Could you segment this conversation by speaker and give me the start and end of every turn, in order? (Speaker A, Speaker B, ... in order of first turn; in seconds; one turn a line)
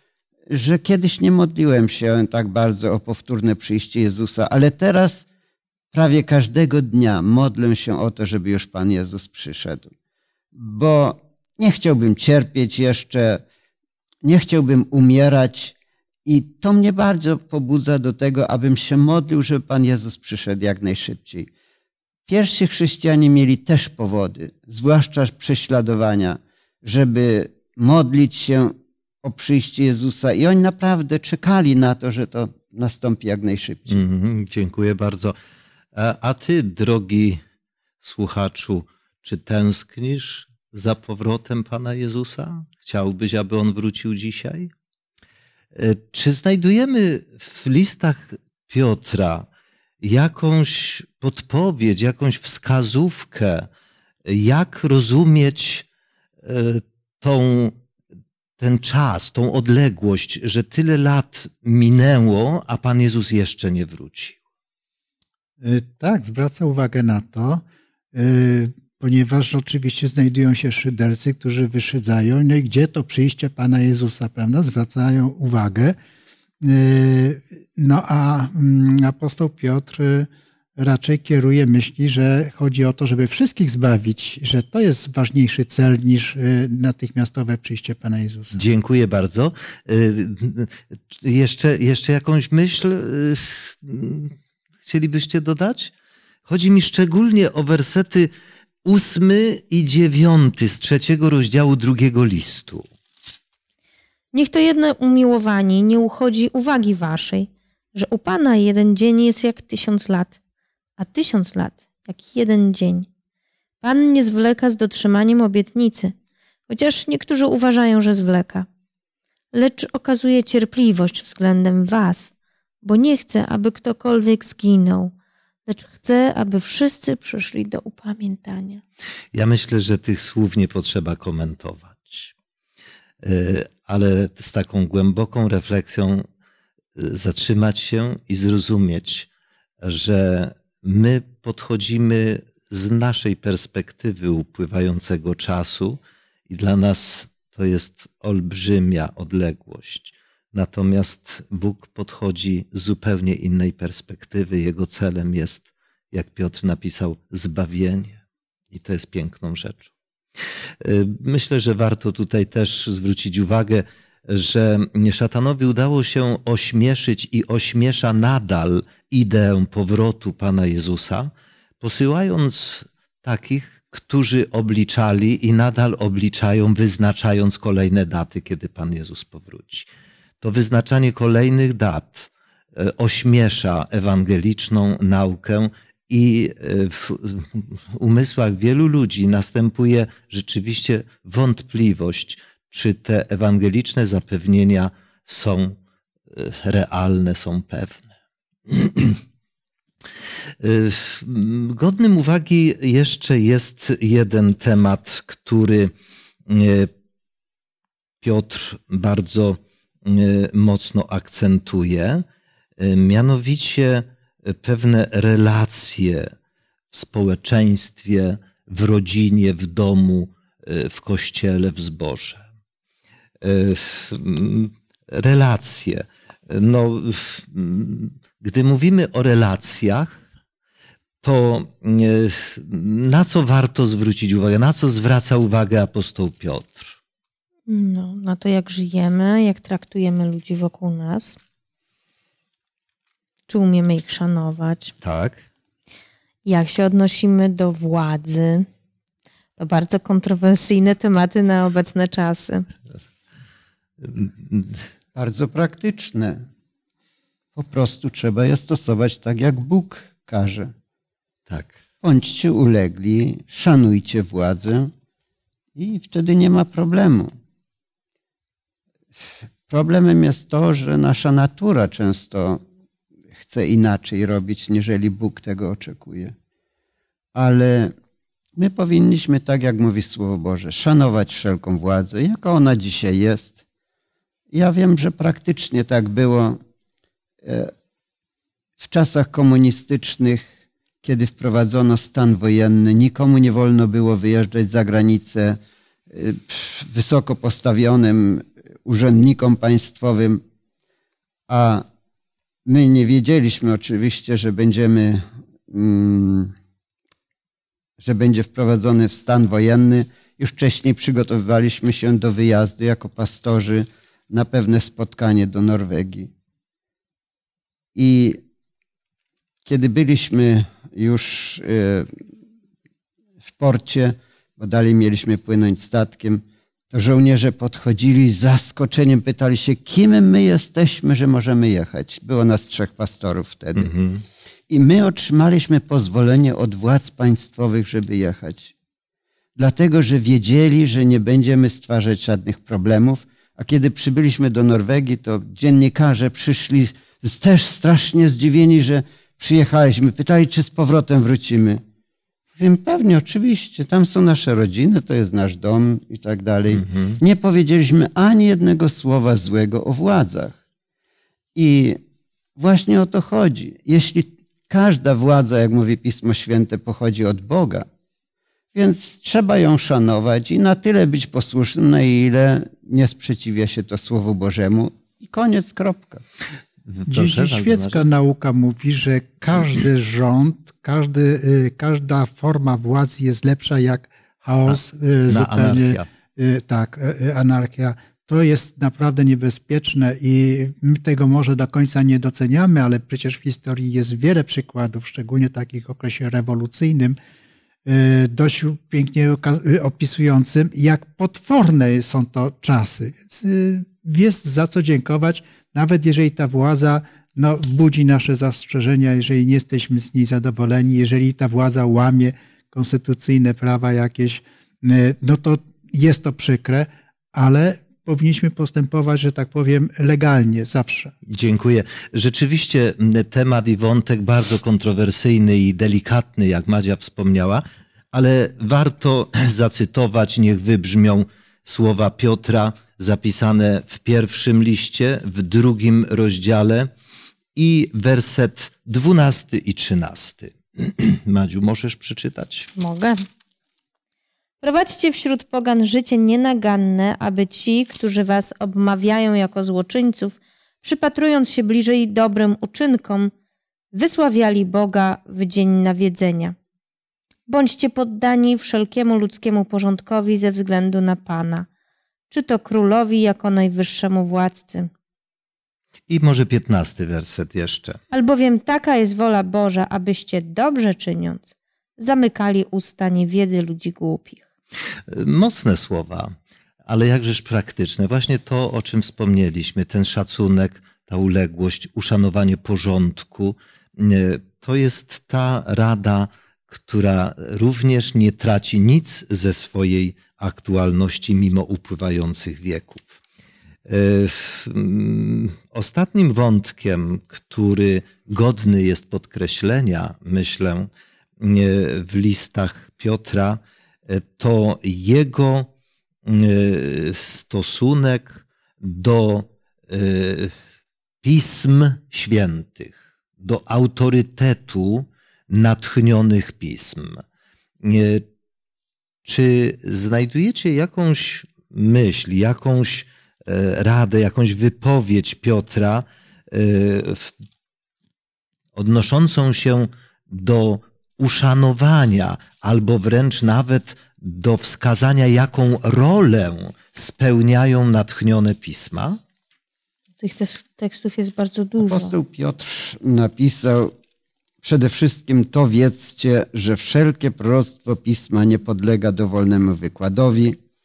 Speaker A: 0.5-5.2
Speaker A: 5.9-9.9
Speaker A: 10.5-13.4
Speaker A: 14.2-21.5
Speaker A: 22.3-34.0
Speaker B: 33.9-35.3
Speaker B: 35.9-37.4
Speaker B: 38.0-44.7
Speaker B: 45.7-49.5
Speaker B: 50.0-53.7
Speaker B: 54.2-55.9
Speaker B: 56.4-57.8
Speaker B: 58.6-64.4
Speaker C: 65.6-67.6
Speaker C: 68.1-75.9
Speaker C: 76.6-88.6
Speaker B: 88.5-95.9
Speaker B: 96.5-98.3
Speaker B: 98.8-102.8
Speaker D: 104.3-110.4
Speaker D: 111.0-113.1
Speaker D: 113.8-116.1
Speaker D: 116.7-118.7
Speaker D: 119.5-122.3
Speaker D: 122.8-125.1
Speaker D: 125.7-128.8
Speaker B: 129.3-132.3
Speaker B: 133.2-136.2
Speaker B: 136.9-139.3
Speaker B: 139.8-159.9
Speaker B: 160.8-179.9
Speaker B: 180.4-195.8
Speaker B: 196.3-198.1
Speaker B: 198.7-199.2
Speaker B: 200.6-205.9
Speaker B: 206.5-206.9
Speaker B: 208.2-212.2
Speaker B: 212.8-216.3
Speaker B: 216.9-222.4
Speaker B: 223.4-230.1
Speaker B: 231.2-236.9
Speaker D: 237.7-241.4
Speaker D: 243.5-244.9
Speaker B: 245.0-245.4
Speaker D: 246.4-248.7
Speaker D: 249.6-252.7
Speaker B: 254.0-254.8
Speaker A: 255.1-256.4
Speaker A: 257.5-260.7
Speaker B: 261.5-261.8
Speaker A: 262.0-264.9
Speaker A: 265.8-267.3
Speaker A: 269.7-272.6
Speaker A: 273.3-276.3
Speaker A: 277.3-277.9
Speaker A: 278.6-283.6
Speaker A: 284.5-286.6
Speaker A: 287.4-287.7
Speaker A: 288.8-290.5
Speaker A: 291.0-295.6
Speaker A: 296.1-300.4
Speaker A: 301.5-301.9
Speaker A: 302.6-306.5
Speaker A: 308.0-316.3
Speaker A: 317.9-318.4
Speaker A: 319.6-322.1
Speaker A: 323.4-333.9
Speaker B: 333.8-334.2
Speaker A: 334.7-338.7
Speaker A: 339.6-351.8
Speaker A: 352.5-360.6
Speaker B: 356.7-357.2
Speaker A: 361.5-362.0
Speaker A: 362.6-367.9
Speaker A: 368.7-376.2
Speaker B: 376.9-378.1
Speaker C: 377.1-397.2
Speaker B: 384.7-386.1
Speaker C: 397.9-421.1
Speaker B: 421.3-436.9
Speaker B: 437.5-442.7
Speaker D: 442.8-443.2
Speaker D: 444.6-453.3
Speaker D: 453.9-456.5
Speaker D: 457.5-461.7
Speaker D: 462.3-464.9
Speaker B: 466.1-468.0
Speaker D: 468.1-474.4
Speaker B: 475.1-476.3
Speaker B: 476.9-493.2
Speaker B: 493.9-500.9
Speaker B: 501.4-505.7
Speaker B: 506.2-510.5
Speaker B: 511.2-517.2
Speaker B: 517.8-518.2
Speaker B: 519.2-527.3
Speaker B: 528.7-539.2
Speaker D: 540.2-542.1
Speaker A: 541.8-543.9
Speaker A: 544.6-550.6